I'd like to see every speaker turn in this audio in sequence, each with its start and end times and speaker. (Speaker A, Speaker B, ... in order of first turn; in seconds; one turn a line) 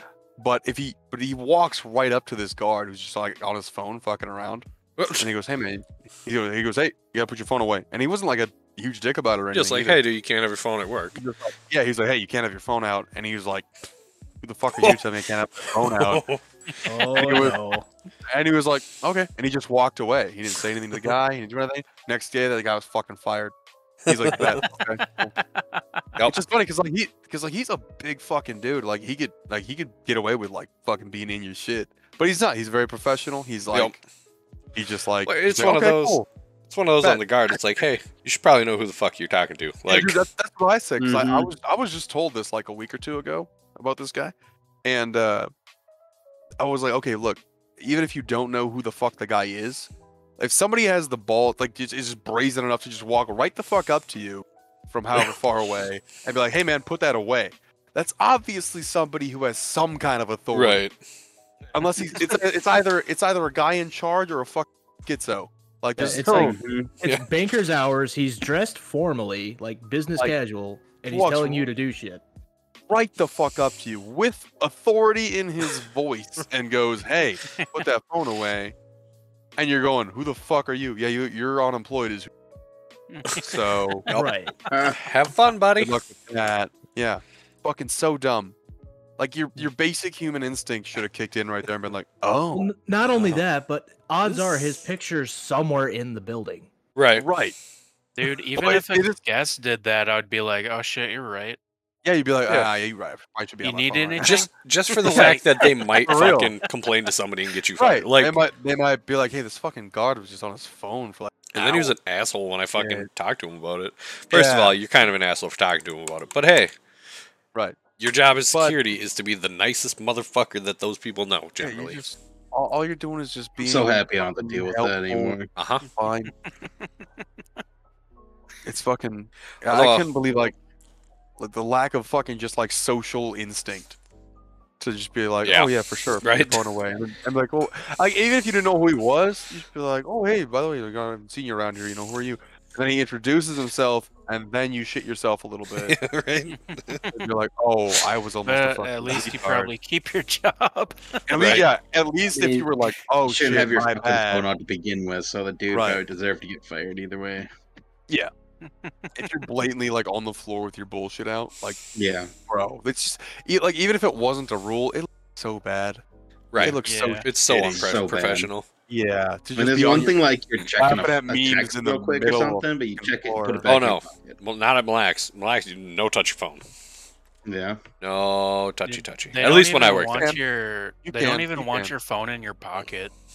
Speaker A: 0.4-4.7
Speaker B: 5.0-5.3
Speaker A: 5.2-10.0
Speaker B: 9.5-11.2
Speaker A: 11.1-13.7
Speaker A: 14.4-16.2
Speaker B: 15.8-16.4
Speaker C: 16.8-17.9
Speaker A: 17.1-17.6
Speaker A: 18.3-23.5
Speaker A: 24.1-25.3
Speaker B: 24.1-24.7
Speaker D: 25.4-26.0
Speaker A: 26.2-34.0
Speaker A: 34.7-36.3
Speaker B: 35.2-40.2
Speaker A: 39.9-45.5
Speaker E: 41.0-41.5
Speaker A: 46.6-60.8
Speaker B: 60.5-61.0
Speaker A: 61.7-66.6
Speaker C: 66.0-72.2
Speaker E: 66.0-66.9
Speaker A: 71.0-71.7
Speaker A: 72.9-78.7
Speaker A: 79.6-82.3
Speaker D: 83.1-83.5
Speaker A: 83.4-84.1
Speaker C: 84.1-84.5
Speaker E: 84.7-85.0
Speaker B: 84.9-86.0
Speaker A: 85.8-88.5
Speaker A: 89.2-92.7
Speaker C: 92.5-96.7
Speaker B: 97.0-97.3
Speaker A: 97.2-97.5
Speaker D: 98.2-101.6
Speaker A: 98.5-99.2
Speaker A: 102.0-104.4
Speaker D: 103.6-104.5
Speaker B: 104.2-108.4
Speaker A: 105.0-106.5
Speaker D: 105.0-105.4
Speaker A: 107.8-111.9
Speaker B: 111.5-116.7
Speaker A: 112.8-113.1
Speaker A: 114.3-114.8
Speaker A: 117.5-117.8
Speaker B: 118.0-122.1
Speaker A: 118.5-118.8
Speaker A: 121.6-125.4
Speaker E: 123.6-125.5
Speaker B: 125.5-125.8
Speaker A: 125.9-126.3
Speaker A: 128.6-130.5
Speaker B: 129.7-130.1
Speaker A: 131.4-134.0
Speaker A: 134.8-146.0
Speaker B: 135.4-136.6
Speaker B: 145.8-147.0
Speaker D: 146.5-146.9
Speaker A: 147.1-149.7
Speaker D: 148.4-151.3
Speaker A: 151.3-154.4
Speaker B: 151.3-151.7
Speaker E: 152.3-152.7
Speaker E: 153.2-157.5
Speaker A: 155.7-156.0
Speaker D: 158.6-159.2
Speaker A: 159.1-161.8
Speaker E: 161.9-162.3
Speaker A: 162.5-166.0
Speaker B: 166.5-168.7
Speaker A: 166.6-167.8
Speaker D: 166.8-167.3
Speaker E: 167.5-168.5
Speaker A: 168.9-170.2
Speaker E: 169.6-174.4
Speaker A: 170.8-173.7
Speaker B: 173.7-176.7
Speaker E: 177.4-177.8
Speaker B: 178.0-180.2
Speaker D: 178.9-183.1
Speaker A: 180.1-180.4
Speaker A: 181.0-181.9